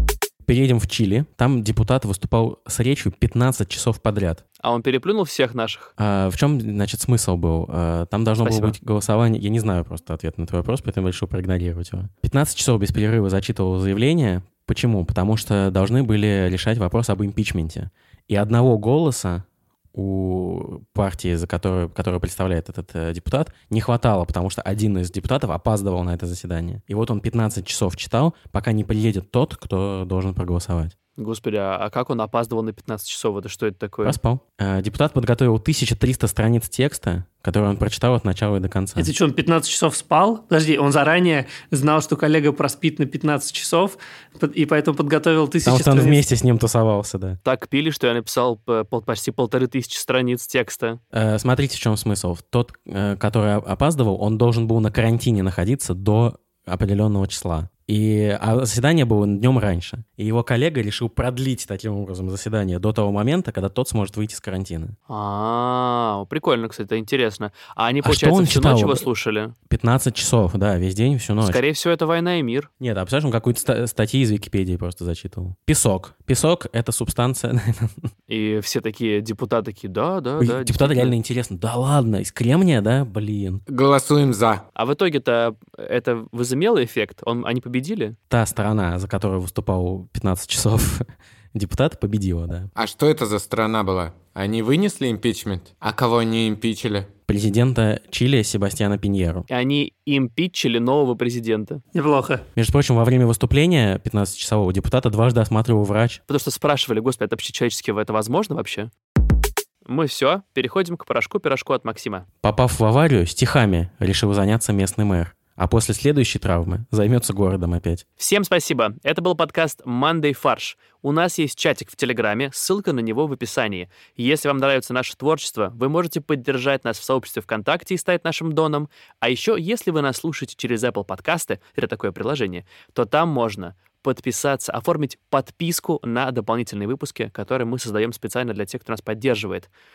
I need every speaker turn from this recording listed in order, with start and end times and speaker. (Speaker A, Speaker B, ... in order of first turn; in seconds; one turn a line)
Speaker A: 0.4-4.4
Speaker B: 4.6-5.9
Speaker A: 6.0-30.9
Speaker B: 8.4-8.8
Speaker B: 31.2-34.2
Speaker A: 34.0-39.1
Speaker C: 39.0-46.2
Speaker A: 45.6-47.4
Speaker B: 47.4-51.0
Speaker A: 51.1-65.0
Speaker B: 65.1-69.5
Speaker A: 68.0-69.0
Speaker A: 69.7-71.6
Speaker B: 71.4-72.7
Speaker A: 72.8-78.1
Speaker B: 78.3-81.1
Speaker A: 80.4-83.6
Speaker D: 83.7-84.6
Speaker B: 84.8-88.2
Speaker A: 88.3-92.7
Speaker D: 92.8-97.1
Speaker A: 97.3-99.5
Speaker B: 99.5-101.8
Speaker C: 101.9-102.4
Speaker A: 102.5-106.2
Speaker B: 106.3-108.9
Speaker B: 109.8-112.2
Speaker A: 112.4-118.0
Speaker B: 118.2-139.7